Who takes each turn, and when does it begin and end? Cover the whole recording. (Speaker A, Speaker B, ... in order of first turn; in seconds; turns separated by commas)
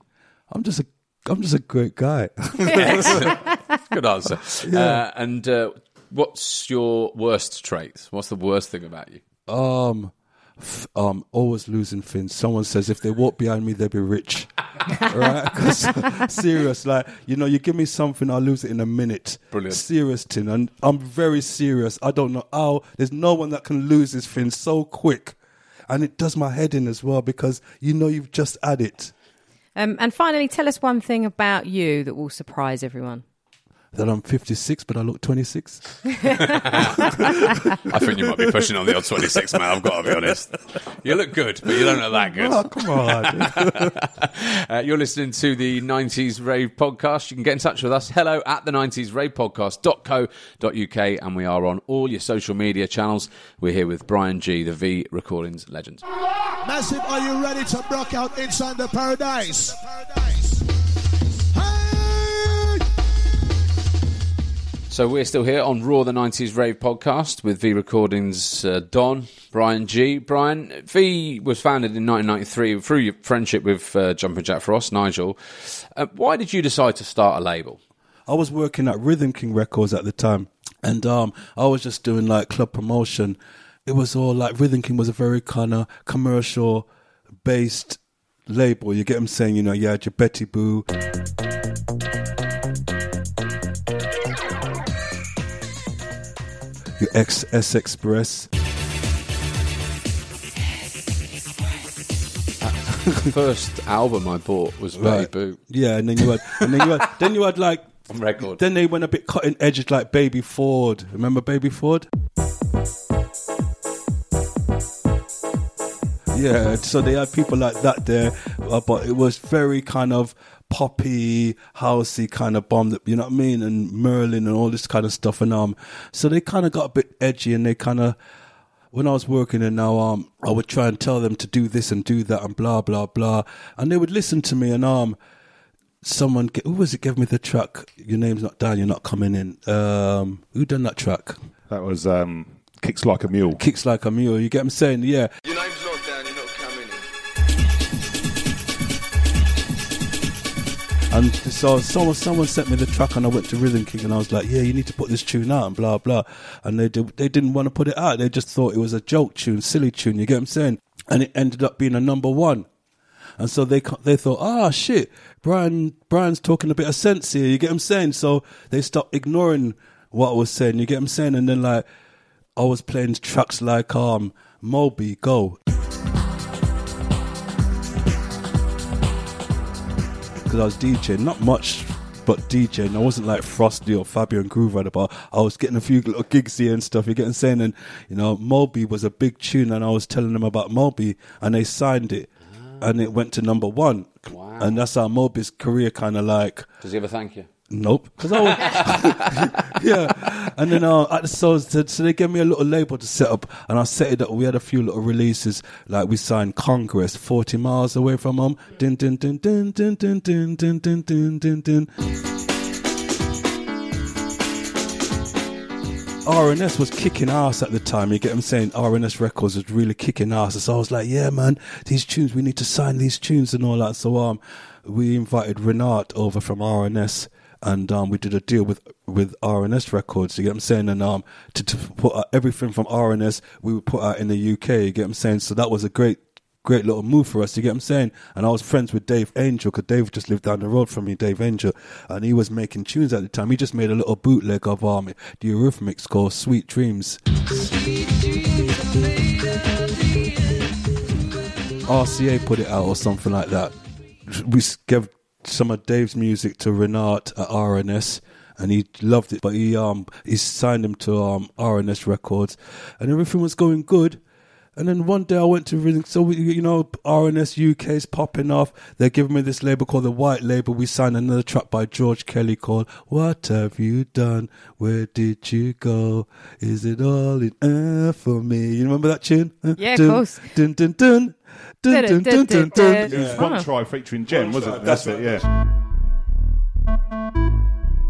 Speaker A: 0.5-3.4, Speaker B: 2.7-9.2, Speaker C: 2.8-3.6, Speaker A: 4.6-5.0, Speaker A: 9.5-25.4, Speaker B: 19.5-19.8, Speaker A: 25.9-29.1, Speaker C: 29.8-33.2, Speaker A: 33.9-40.3, Speaker B: 36.3-56.0, Speaker A: 41.7-43.9, Speaker D: 56.6-60.2, Speaker D: 61.5-62.8, Speaker B: 64.9-77.8, Speaker A: 78.3-86.8, Speaker A: 87.4-90.8, Speaker A: 97.0-98.5, Speaker B: 102.6-105.6, Speaker A: 105.0-112.0, Speaker B: 106.2-107.2, Speaker B: 108.1-108.6, Speaker A: 116.3-128.2, Speaker A: 128.9-135.2, Speaker A: 136.0-141.4, Speaker E: 141.7-143.6, Speaker A: 143.6-145.3, Speaker A: 151.1-162.7, Speaker A: 163.4-171.8, Speaker A: 172.6-175.6, Speaker A: 180.4-192.3, Speaker A: 192.8-196.7, Speaker B: 194.3-194.8, Speaker B: 196.8-197.5, Speaker A: 197.7-211.9, Speaker B: 198.4-199.7, Speaker A: 216.2-247.2, Speaker A: 251.8-253.7, Speaker A: 254.2-264.2, Speaker A: 264.8-283.5, Speaker C: 279.8-280.5, Speaker C: 281.9-283.7, Speaker E: 283.0-285.4, Speaker A: 284.3-285.4